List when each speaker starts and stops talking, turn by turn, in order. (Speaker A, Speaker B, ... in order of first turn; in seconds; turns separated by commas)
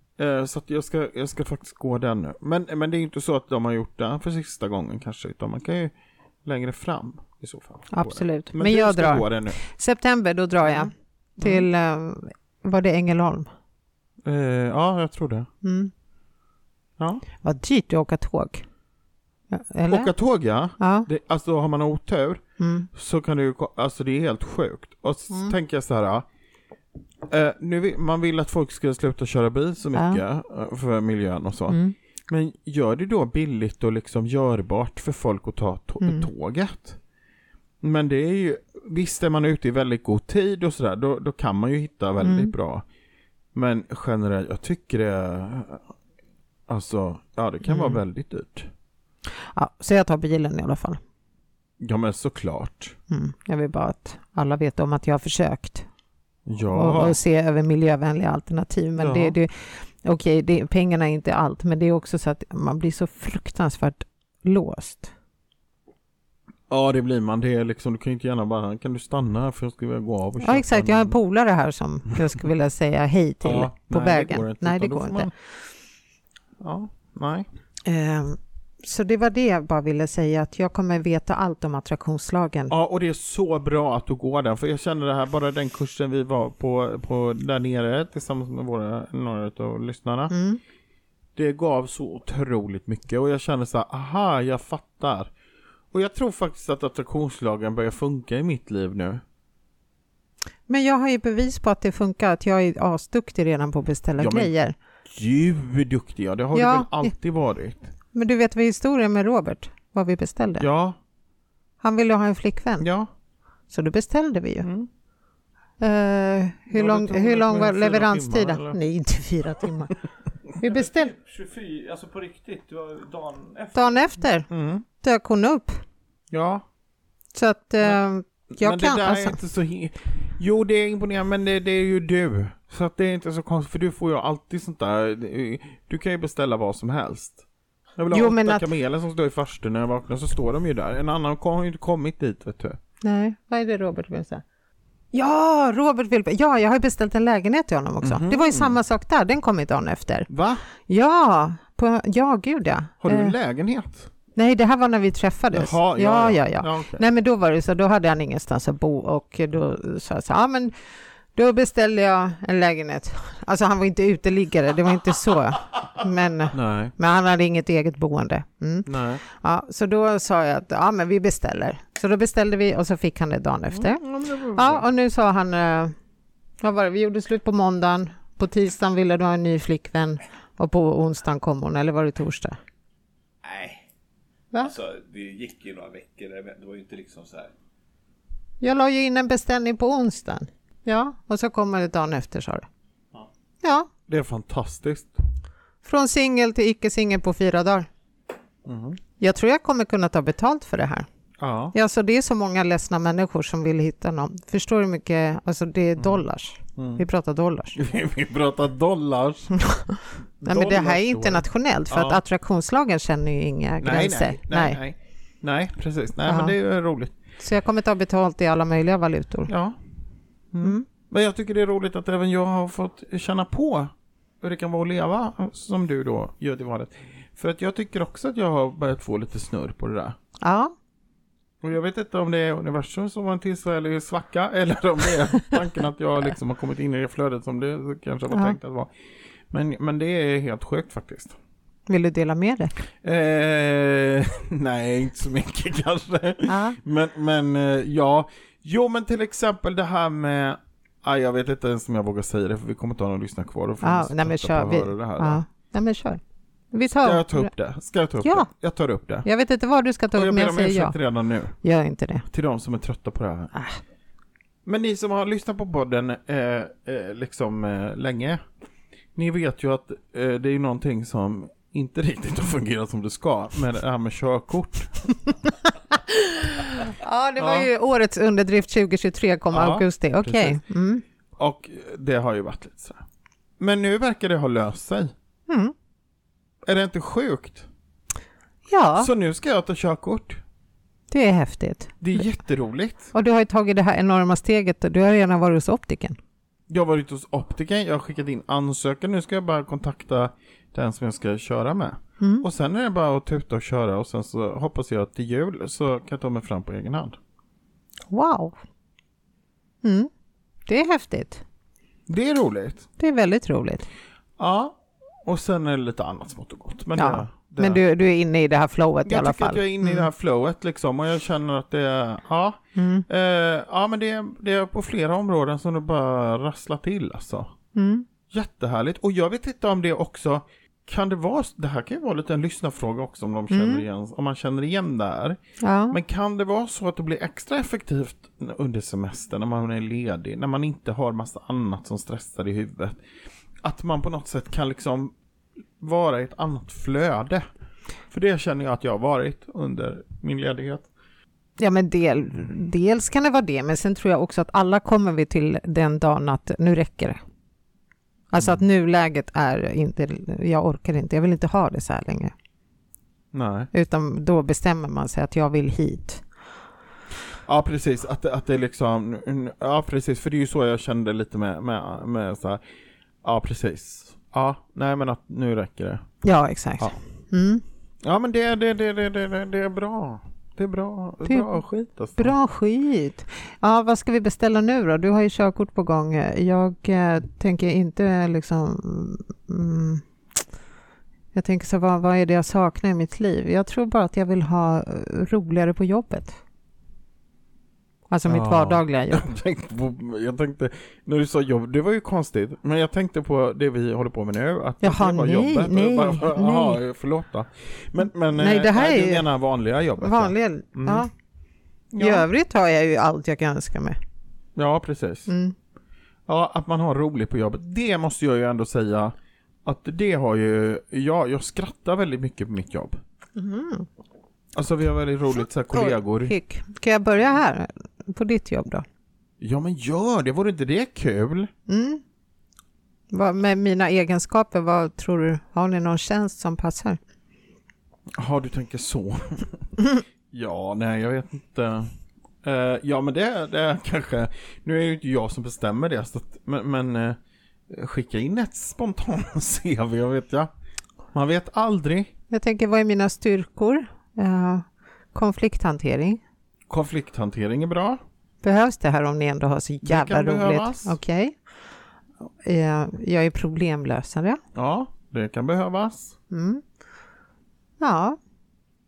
Speaker A: 0.2-5.9, Speaker A: 6.5-9.6, Speaker B: 7.9-13.5, Speaker A: 10.6-11.7, Speaker A: 14.2-15.5, Speaker B: 15.6-15.9, Speaker A: 17.0-17.2, Speaker B: 17.4-18.6, Speaker B: 19.5-20.1, Speaker A: 19.9-22.4, Speaker B: 20.8-21.1, Speaker B: 22.6-22.9, Speaker A: 22.9-26.3, Speaker A: 27.3-37.0, Speaker B: 29.9-30.2, Speaker B: 31.7-31.9, Speaker B: 36.0-36.3, Speaker A: 37.8-42.8, Speaker B: 42.2-42.5, Speaker A: 43.5-45.9, Speaker A: 46.7-48.7, Speaker B: 47.6-48.0, Speaker B: 49.5-51.0, Speaker A: 51.8-53.0, Speaker B: 53.1-55.9, Speaker A: 56.5-57.2, Speaker B: 56.7-65.1, Speaker A: 59.0-59.4, Speaker A: 66.7-71.2, Speaker B: 70.4-75.3, Speaker A: 73.4-75.3, Speaker A: 76.6-77.5, Speaker B: 77.9-82.7, Speaker A: 82.7-90.3, Speaker B: 90.3-90.6, Speaker A: 91.4-95.3, Speaker A: 95.9-99.2, Speaker B: 100.7-104.8, Speaker A: 104.2-104.5, Speaker A: 105.1-107.9, Speaker B: 106.5-107.1, Speaker B: 108.1-110.7, Speaker A: 110.6-111.0, Speaker B: 111.8-112.9, Speaker A: 112.8-113.1, Speaker B: 113.7-114.7, Speaker A: 114.6-114.9, Speaker B: 115.8-120.0, Speaker A: 116.7-118.8, Speaker B: 120.6-121.1, Speaker C: 120.6-124.1, Speaker B: 123.8-124.5, Speaker A: 124.5-124.8, Speaker B: 125.0-125.8, Speaker A: 126.3-126.6, Speaker B: 127.3-129.4, Speaker A: 128.5-137.4, Speaker A: 138.0-142.8, Speaker B: 138.1-138.7, Speaker B: 143.0-144.4, Speaker B: 145.1-150.3, Speaker A: 148.0-148.8, Speaker A: 150.3-150.6, Speaker B: 150.9-153.3, Speaker A: 153.0-154.1, Speaker B: 154.3-160.7, Speaker A: 155.5-157.0, Speaker B: 161.3-175.9, Speaker A: 166.5-166.9, Speaker A: 168.9-169.2, Speaker A: 173.7-174.8, Speaker B: 176.6-182.6, Speaker C: 183.4-183.8, Speaker C: 184.6-187.5, Speaker B: 188.6-192.7, Speaker B: 193.6-193.9, Speaker A: 194.1-195.2, Speaker B: 195.8-197.9, Speaker A: 198.7-199.0, Speaker B: 199.2-201.1, Speaker A: 201.4-201.8, Speaker B: 201.7-207.8, Speaker A: 206.8-207.0, Speaker A: 207.8-209.5, Speaker B: 209.6-214.8, Speaker A: 210.4-212.2, Speaker A: 213.8-217.2, Speaker B: 216.3-216.5, Speaker B: 217.4-219.5, Speaker A: 219.5-219.8, Speaker A: 220.5-230.2, Speaker B: 230.4-230.7, Speaker A: 231.6-238.9, Speaker B: 238.3-238.6, Speaker A: 239.5-241.4, Speaker B: 241.9-242.7, Speaker A: 243.0-255.4, Speaker B: 246.5-246.8, Speaker B: 253.8-256.2, Speaker B: 256.7-257.5, Speaker A: 256.9-259.3, Speaker B: 258.2-258.5, Speaker B: 259.2-260.9, Speaker A: 260.1-261.6, Speaker B: 261.6-262.3, Speaker A: 262.3-263.5, Speaker A: 264.6-268.4, Speaker A: 269.1-275.2, Speaker B: 275.9-281.0, Speaker A: 277.4-277.7, Speaker A: 279.5-280.6, Speaker A: 281.4-283.0, Speaker A: 283.6-285.1, Speaker B: 285.5-285.7, Speaker A: 286.6-287.7, Speaker B: 288.7-289.1, Speaker A: 289.0-290.4, Speaker B: 291.1-292.2, Speaker A: 292.0-293.1, Speaker B: 293.1-296.2, Speaker A: 296.7-307.2, Speaker B: 302.2-302.5, Speaker B: 308.1-308.6, Speaker B: 309.8-310.1, Speaker B: 310.7-311.4, Speaker A: 312.1-312.9, Speaker B: 313.0-313.9, Speaker A: 314.4-317.8, Speaker B: 317.0-320.1, Speaker A: 319.1-327.5, Speaker B: 322.8-323.1, Speaker B: 327.8-328.1, Speaker A: 328.3-335.4, Speaker B: 333.5-333.9, Speaker B: 335.6-336.0, Speaker A: 335.9-343.0, Speaker A: 343.6-345.1, Speaker A: 345.8-347.4, Speaker A: 348.1-350.9, Speaker B: 351.6-357.2, Speaker B: 358.3-362.3, Speaker A: 363.3-363.7, Speaker B: 363.7-366.2, Speaker A: 367.5-372.6, Speaker A: 373.2-376.1, Speaker B: 376.2-377.6, Speaker A: 378.0-382.4, Speaker B: 381.3-381.6, Speaker B: 382.2-390.0, Speaker B: 391.3-396.4, Speaker B: 398.1-399.3, Speaker A: 398.3-411.1, Speaker B: 404.8-406.8, Speaker B: 408.3-409.3, Speaker B: 410.0-411.1, Speaker A: 411.9-412.3, Speaker B: 412.0-414.0, Speaker A: 414.6-415.3, Speaker B: 415.3-415.5, Speaker A: 416.3-419.1, Speaker A: 419.6-423.0, Speaker B: 423.4-423.9, Speaker A: 424.6-426.3, Speaker B: 425.7-428.9, Speaker A: 429.4-431.5, Speaker B: 431.7-432.0, Speaker B: 433.1-437.0, Speaker A: 438.2-439.7, Speaker A: 440.3-441.9, Speaker A: 442.4-447.2, Speaker A: 447.7-450.5, Speaker A: 451.1-452.1, Speaker B: 452.3-456.2, Speaker A: 456.7-458.0, Speaker B: 458.4-461.4, Speaker A: 459.8-461.0, Speaker B: 462.4-464.4, Speaker A: 464.6-466.1, Speaker B: 466.3-466.6, Speaker B: 467.8-468.2